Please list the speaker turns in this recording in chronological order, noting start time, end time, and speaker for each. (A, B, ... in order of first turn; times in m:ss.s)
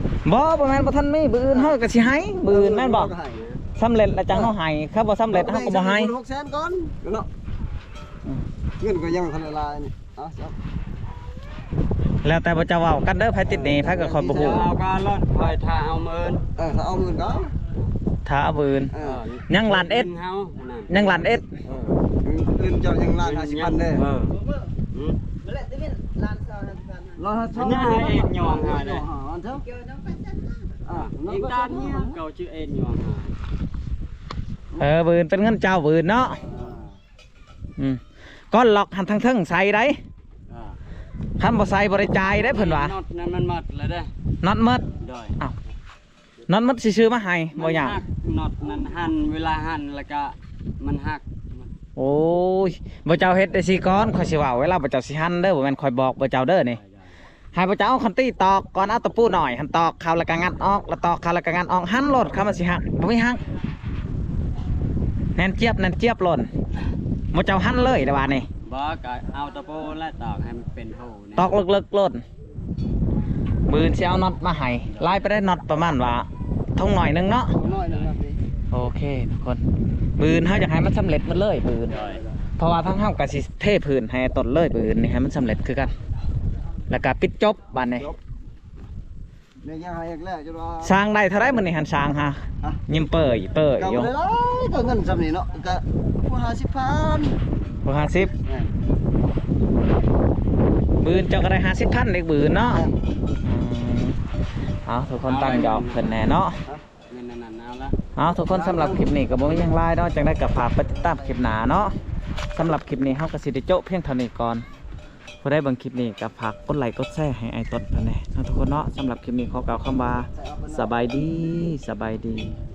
0:00.2-0:03.1 A
0:01.5-0:01.8 B
0:02.4-0:03.5 B
0:03.8-0:06.1 A
0:05.3-0:07.3 B
0:08.8-0:10.6 B
0:12.2-0:14.7 A
0:13.5-0:14.6 B
0:14.3-0:16.4 C
0:16.6-0:17.5 B
0:18.2-0:18.9 A
0:18.9-0:19.2 B
0:18.9-0:21.1 C
0:19.5-0:20.1 A
0:20.9-0:21.5 A
0:21.6-0:24.0 B
0:23.2-0:24.4 C
0:24.9-0:25.2 C
0:27.1-0:29.7 B
0:27.6-0:29.0 C
0:30.8-0:32.1 B
0:30.9-0:33.3 C
0:34.8-0:36.4 A
0:36.4-0:36.8 C
0:36.4-0:36.8 B
0:37.8-0:40.0 A
0:40.5-0:40.8 C
0:41.4-0:42.9 A
0:42.1-0:44.1 C
0:44.4-0:45.5 A
0:45.0-0:45.4 C
0:46.5-0:48.0 A
0:47.5-0:51.7 C
0:52.0-0:56.8 A
0:56.7-0:57.2 C
0:57.5-1:03.4 A
1:05.4-1:06.5 A
1:07.3-1:08.5 A
1:08.6-1:11.6 C
1:11.4-1:12.2 A
1:13.7-1:17.5 A
1:17.5-1:18.4 B
1:18.7-1:19.6 A
1:20.2-1:22.0 A
1:21.9-1:22.2 C
1:21.9-1:22.4 B
1:22.6-1:25.9 A
1:26.9-1:28.1 A
1:29.6-1:31.0 B
1:30.8-1:34.1 A
1:33.8-1:37.4 B
1:37.8-1:38.3 A
1:38.3-1:38.7 B
1:41.0-1:42.8 A
1:42.6-1:43.0 B
1:43.4-1:44.2 A
1:44.8-1:46.6 A
1:45.2-1:46.2 C
1:47.1-1:48.0 C
1:48.2-1:51.9 A
1:48.5-1:49.1 B
1:50.9-1:51.5 B
1:52.5-1:54.6 A
1:55.4-2:02.5 A
2:00.3-2:00.9 B